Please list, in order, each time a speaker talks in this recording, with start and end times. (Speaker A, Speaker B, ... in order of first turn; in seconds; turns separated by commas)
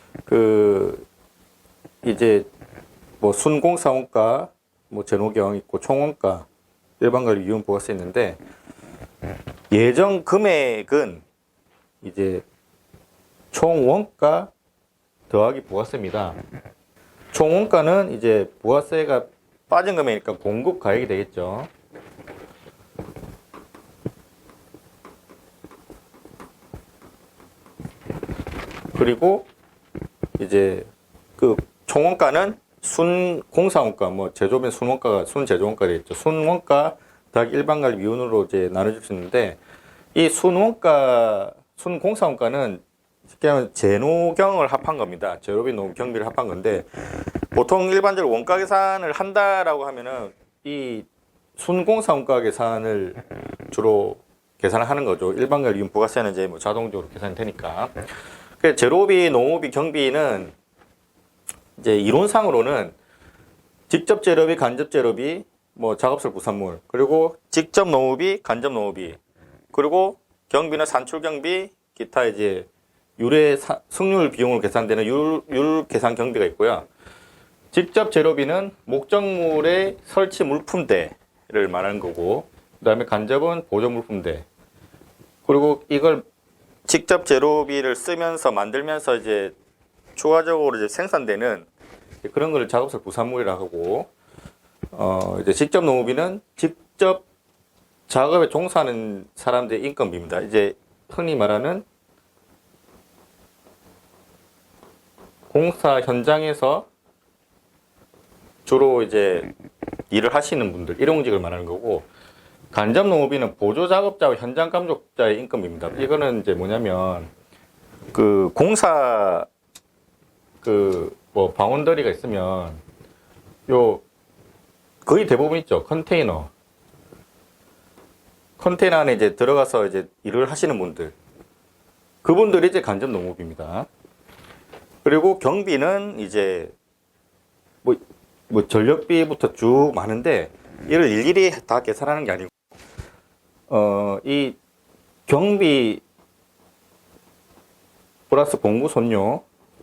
Speaker A: 0.3-1.1, Speaker A: 2.0-2.5, Speaker A: 3.2-6.5, Speaker A: 7.0-8.4, Speaker A: 9.7-11.2, Speaker A: 12.0-12.4, Speaker A: 13.5-14.5, Speaker A: 15.3-16.4, Speaker A: 17.3-21.7, Speaker A: 28.9-29.5, Speaker A: 30.4-39.6, Speaker A: 40.1-42.8, Speaker A: 43.3-46.9, Speaker A: 47.5-51.1, Speaker A: 51.6-57.9, Speaker A: 58.6-60.5, Speaker A: 61.8-63.0, Speaker A: 63.9-69.2, Speaker A: 69.7-72.7, Speaker A: 73.2-76.9, Speaker A: 77.7-84.5, Speaker A: 85.5-86.2, Speaker A: 86.9-89.5, Speaker A: 90.2-91.7, Speaker A: 92.2-94.1, Speaker A: 94.9-97.2, Speaker A: 98.1-101.8, Speaker A: 105.5-106.9, Speaker A: 108.7-109.5, Speaker A: 110.1-112.1, Speaker A: 112.7-117.3, Speaker A: 118.1-119.5, Speaker A: 120.6-122.8, Speaker A: 123.7-124.0, Speaker A: 125.0-126.5, Speaker A: 128.6-131.1, Speaker A: 132.2-133.9, Speaker A: 135.0-136.7, Speaker A: 137.8-142.5, Speaker A: 143.7-144.6, Speaker A: 145.3-146.0, Speaker A: 148.3-149.4